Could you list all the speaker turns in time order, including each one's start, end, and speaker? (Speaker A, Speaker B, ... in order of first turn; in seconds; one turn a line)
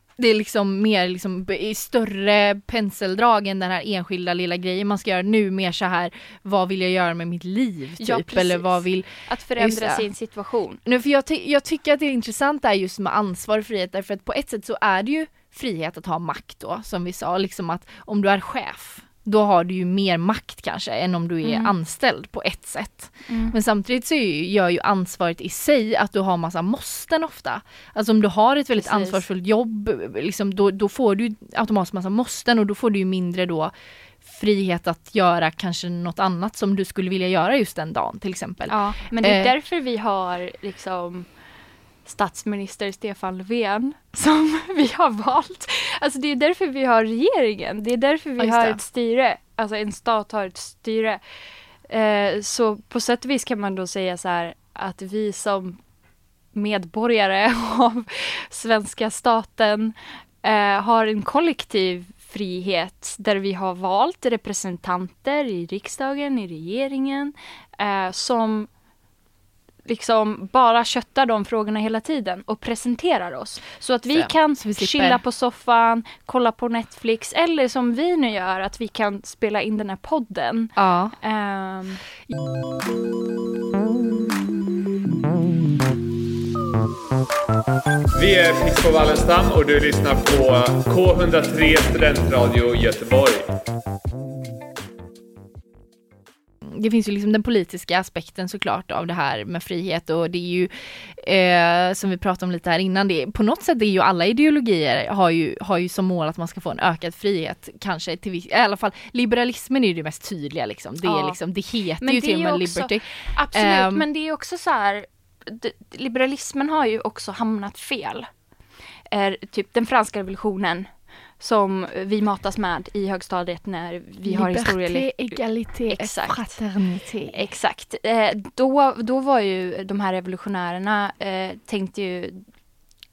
Speaker A: 0.2-10.1
Speaker B: 8.0-10.8
Speaker A: 10.8-39.5
Speaker B: 21.4-21.7
Speaker B: 23.2-23.5
Speaker B: 28.7-29.2
Speaker B: 38.7-41.3
Speaker B: 42.0-51.2
Speaker A: 48.4-48.8
Speaker B: 51.9-55.8
Speaker B: 56.5-68.7
Speaker B: 69.8-82.0
Speaker A: 74.1-75.2
Speaker A: 80.8-81.1
Speaker C: 88.1-93.5
Speaker A: 96.6-114.0
Speaker B: 111.0-111.4
Speaker B: 112.0-118.3
Speaker B: 119.1-120.9
Speaker B: 121.4-126.6
Speaker A: 124.3-127.4
Speaker B: 127.3-132.4